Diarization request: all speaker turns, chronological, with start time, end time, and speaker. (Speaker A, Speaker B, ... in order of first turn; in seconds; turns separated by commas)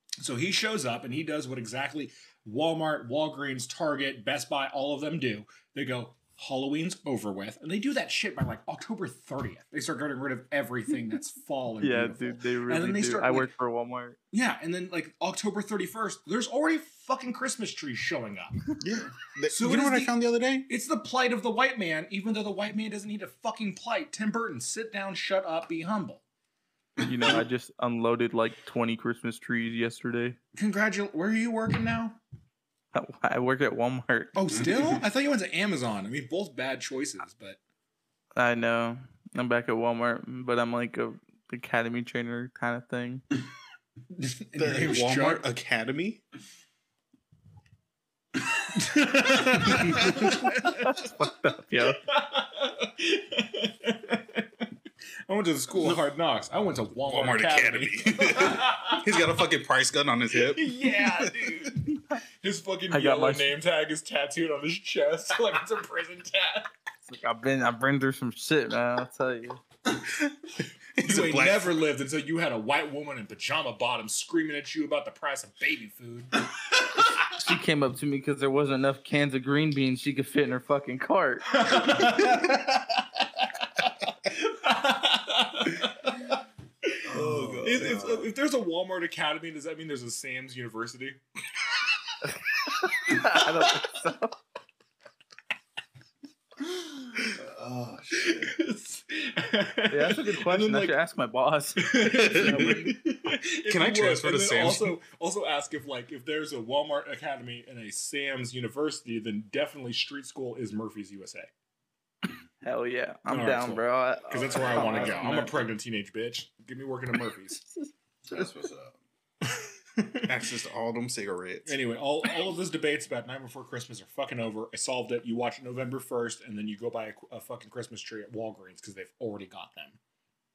Speaker A: 0.2-13.5, Speaker B: 11.8-14.2, Speaker A: 14.3-18.7, Speaker C: 18.8-20.7, Speaker A: 19.5-26.2, Speaker B: 27.0-30.4, Speaker A: 30.6-32.2, Speaker B: 32.9-34.4, Speaker A: 34.3-37.6, Speaker D: 34.5-35.0, Speaker B: 38.4-43.2, Speaker A: 44.1-45.4, Speaker C: 44.6-46.2, Speaker A: 48.8-51.0, Speaker B: 49.9-52.0, Speaker A: 52.1-54.7, Speaker A: 55.3-59.0, Speaker C: 57.1-61.5, Speaker A: 60.3-66.7, Speaker B: 62.9-63.5, Speaker B: 67.1-69.6, Speaker C: 70.0-71.8, Speaker A: 71.0-76.3, Speaker B: 77.2-81.6, Speaker A: 81.5-82.9, Speaker A: 83.8-91.2, Speaker D: 87.0-88.3, Speaker B: 92.3-94.4, Speaker D: 97.2-98.5, Speaker A: 98.1-101.0, Speaker B: 99.9-102.9, Speaker A: 101.8-111.5, Speaker C: 102.0-102.9, Speaker C: 103.7-105.0, Speaker B: 112.6-115.6, Speaker A: 113.3-117.6, Speaker D: 118.3-119.0, Speaker A: 119.5-120.3, Speaker C: 120.3-121.7, Speaker A: 121.7-130.0